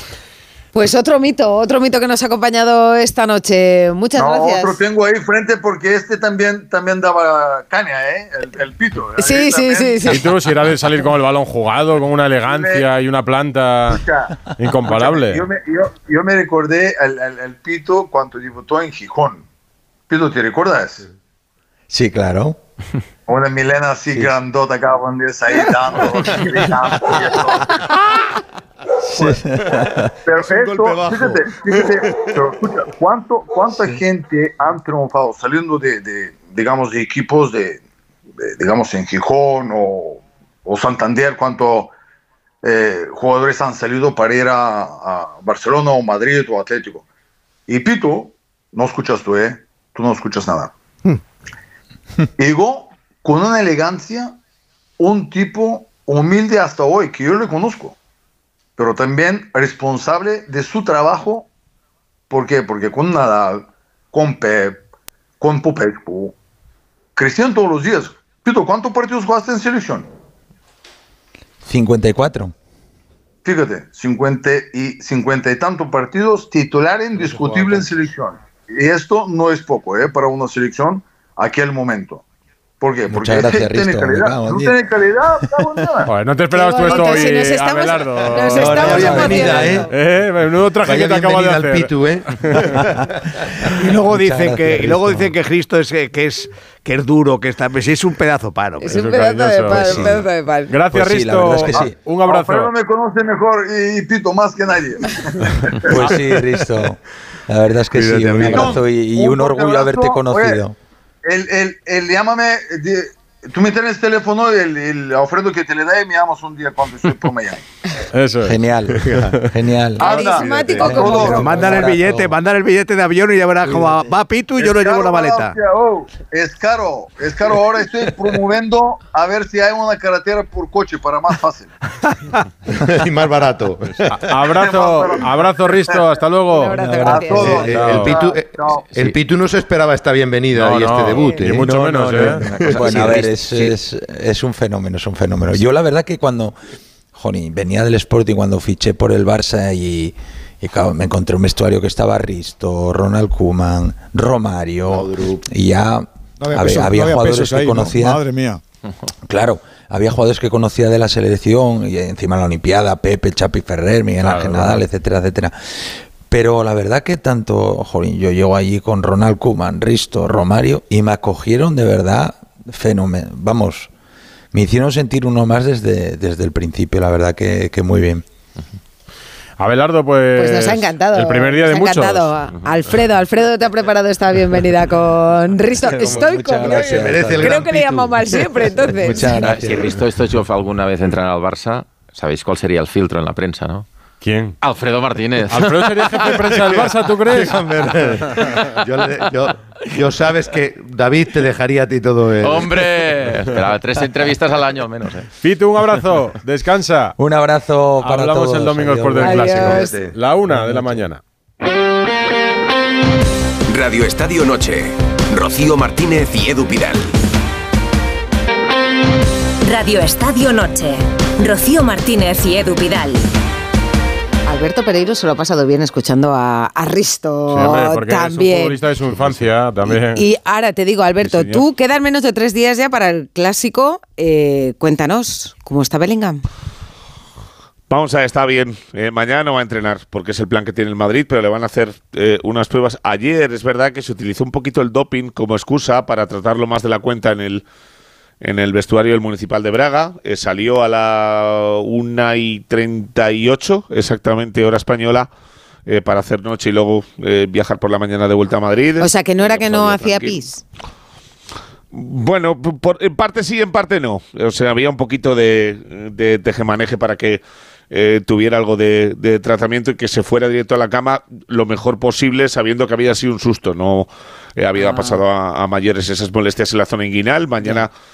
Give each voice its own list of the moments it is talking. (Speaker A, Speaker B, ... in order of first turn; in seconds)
Speaker A: 0.7-4.8, 9.2-10.2, 86.5-89.9, 98.8-100.7, 120.0-121.7, 136.5-137.7, 180.3-189.3, 209.2-210.0, 224.4-228.8, 229.9-236.4, 259.0-260.6, 274.8-275.2
Speaker B: 4.2-10.2, 12.4-12.8, 13.9-14.3, 14.9-19.4, 20.1-21.0, 23.3-27.8, 30.2-37.8, 38.4-41.9, 42.6-47.0, 47.7-50.7, 52.4-54.4, 55.0-57.9, 58.8-61.5, 62.3-64.8, 65.4-66.3, 67.2-70.1, 73.4-82.2, 82.8-86.1, 101.8-106.1, 108.1-110.6, 111.3-117.6, 120.0-121.4, 124.6-131.7, 134.6-135.8, 137.1-138.8
Speaker C: 10.1-14.0, 14.6-15.4, 86.0-92.7, 98.8-102.7, 118.1-119.5, 134.1-138.2, 140.5-143.1, 164.2-164.8, 179.6-182.3, 194.2-194.6, 195.5-198.2, 205.4-207.2, 208.0-211.2, 227.5-230.3, 231.2-231.6
Speaker D: 21.9-22.6, 24.1-24.4, 29.1-30.1, 71.6-72.5, 83.1-84.7, 85.5-85.8, 88.6-89.7, 94.1-95.2, 100.9-101.9, 105.9-110.7, 118.4-122.2, 136.8-137.1, 142.7-146.5, 147.1-158.2, 159.3-173.9, 174.5-178.2, 185.8-187.7, 189.0-189.8, 207.2-209.7
Speaker E: 30.6-31.2, 93.8-98.9, 120.9-125.5
Speaker F: 88.7-89.9, 90.8-92.6, 132.8-134.3, 137.4-143.3, 154.8-155.4, 186.6-188.2, 189.5-189.9, 197.4-198.2, 198.8-202.7
Speaker G: 156.4-158.6
Speaker H: 189.4-193.8, 194.6-196.5, 198.3-198.6, 202.4-205.3
Speaker I: 213.7-217.2
Speaker J: 219.6-223.3
Speaker K: 237.9-247.6, 248.4-255.3, 255.9-260.4, 261.9-277.9